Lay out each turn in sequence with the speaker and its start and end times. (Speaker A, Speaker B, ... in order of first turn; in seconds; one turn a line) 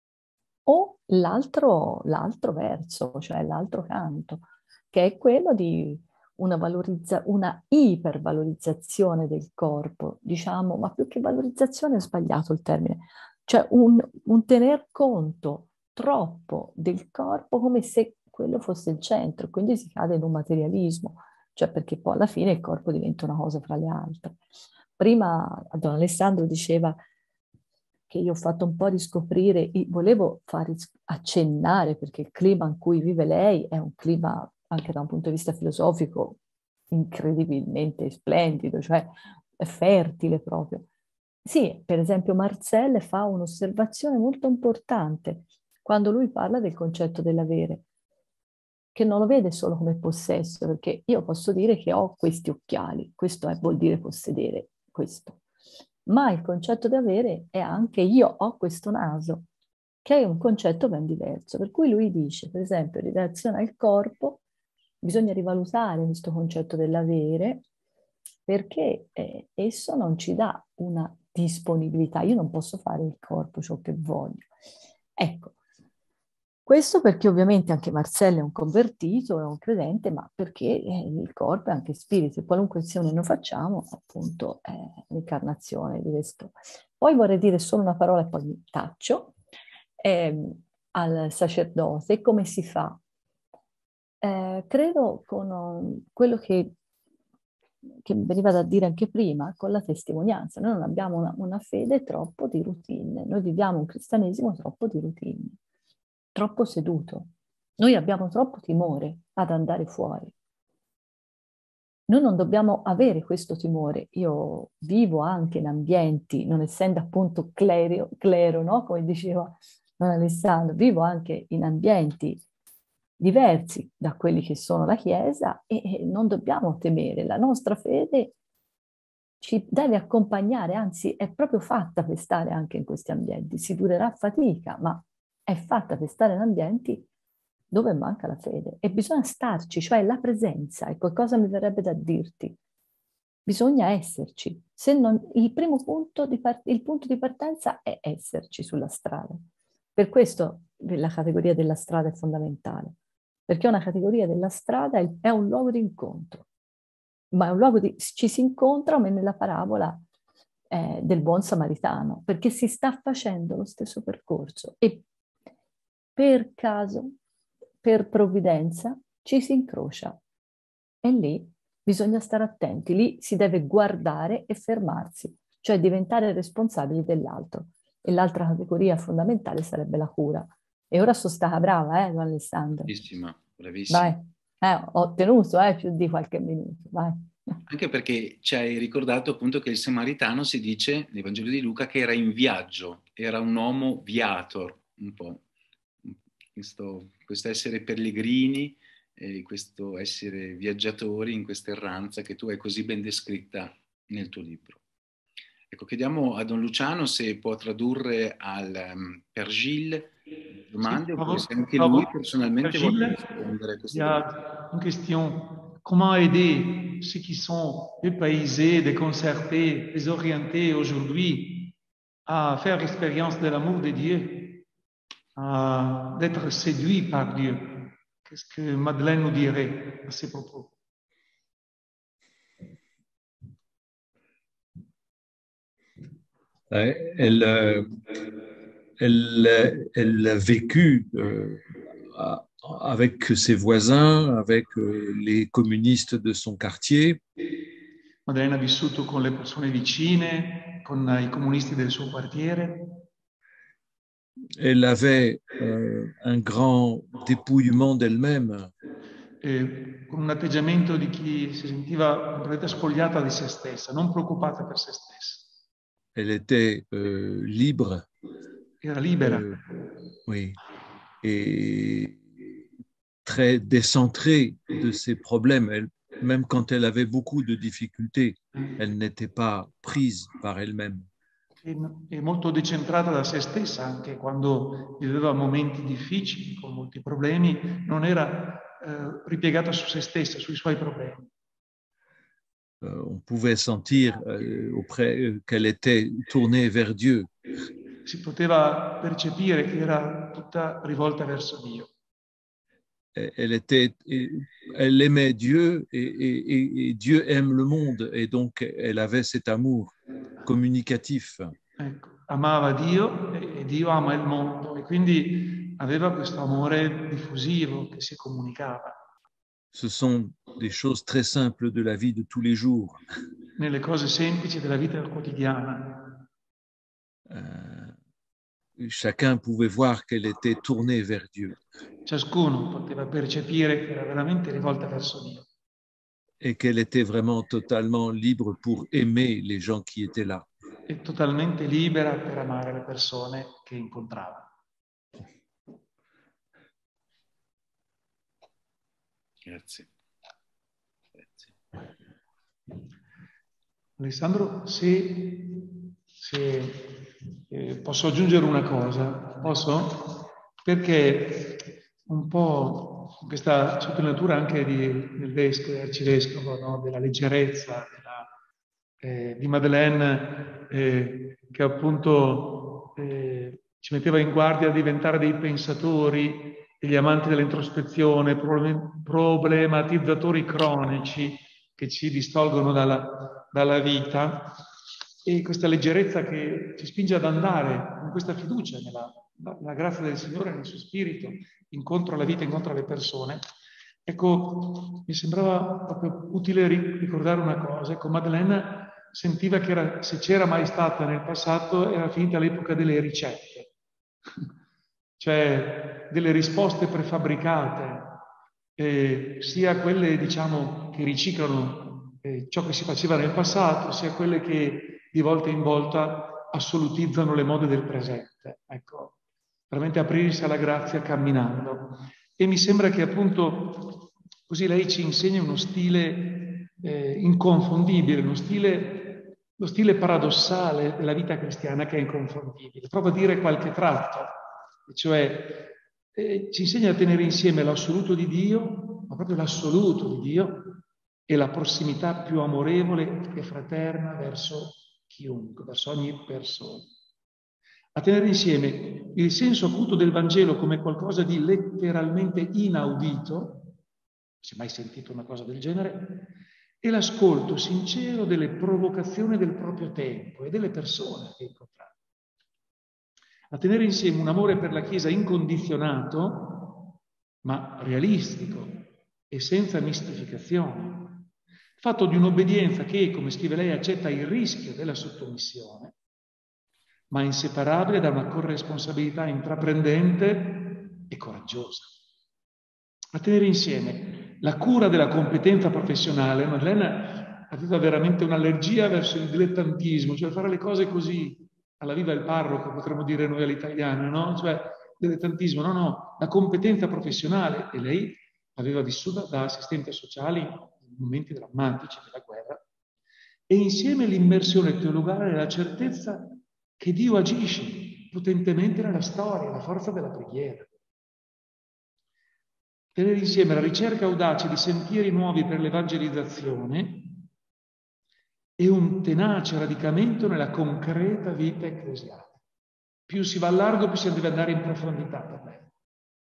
Speaker A: 0.7-24.4
Speaker A: 25.0-27.0
Speaker A: 28.1-36.4
Speaker A: 36.9-40.9
Speaker A: 41.5-47.8
Speaker A: 49.0-55.4
Speaker A: 56.1-59.5
Speaker A: 60.0-64.4
Speaker A: 65.0-67.6
Speaker A: 68.5-74.5
Speaker A: 75.2-75.5
Speaker A: 76.7-89.3
Speaker A: 90.0-93.0
Speaker A: 94.2-96.7
Speaker A: 98.0-105.6
Speaker A: 106.3-110.3
Speaker A: 112.1-122.4
Speaker A: 123.2-128.3
Speaker A: 129.4-137.1
Speaker A: 137.7-142.6
Speaker A: 143.5-149.4
Speaker A: 150.0-152.9
Speaker A: 153.5-156.4
Speaker A: 157.3-160.0
Speaker A: 160.7-165.0
Speaker A: 166.2-167.1
Speaker A: 167.8-170.2
Speaker A: 171.0-182.9
Speaker B: 182.9-184.2
Speaker A: 183.9-187.3
Speaker B: 187.7-195.4
Speaker B: 196.1-204.8
Speaker B: 205.7-210.1
Speaker B: 210.6-214.3
Speaker C: 210.8-213.4
Speaker C: 213.9-221.7
Speaker C: 222.3-224.7
Speaker C: 225.4-230.7
Speaker D: 236.7-238.0
Speaker D: 239.0-247.2
Speaker C: 248.3-253.0
Speaker D: 254.6-258.7
Speaker C: 259.4-265.5
Speaker D: 266.1-268.1
Speaker C: 268.8-269.6
Speaker D: 269.2-269.6
Speaker D: 270.3-270.6
Speaker D: 271.2-272.2
Speaker D: 273.2-281.1
Speaker C: 281.6-291.3
Speaker D: 292.8-297.3
Speaker C: 298.1-301.9
Speaker D: 303.1-311.6
Speaker C: 311.8-319.0
Speaker D: 319.7-323.0
Speaker C: 323.6-326.2
Speaker D: 327.3-328.0
Speaker D: 328.8-331.6
Speaker C: 332.1-335.5
Speaker D: 336.4-340.5
Speaker C: 340.9-344.5
Speaker B: 349.4-349.9
Speaker B: 351.2-351.5
Speaker C: 354.0-368.3
Speaker C: 369.0-384.6
Speaker C: 385.2-393.4
Speaker C: 394.1-403.7
Speaker C: 405.2-408.2
Speaker C: 408.8-419.1
Speaker C: 419.7-434.3
Speaker C: 434.9-446.9
Speaker C: 447.9-453.7
Speaker C: 454.4-461.9
Speaker C: 463.5-466.9
Speaker C: 467.4-471.3
Speaker C: 471.8-475.9
Speaker C: 477.1-481.9
Speaker C: 483.1-502.6
Speaker C: 503.5-510.7
Speaker C: 513.0-517.3
Speaker C: 518.6-522.3
Speaker C: 523.1-525.7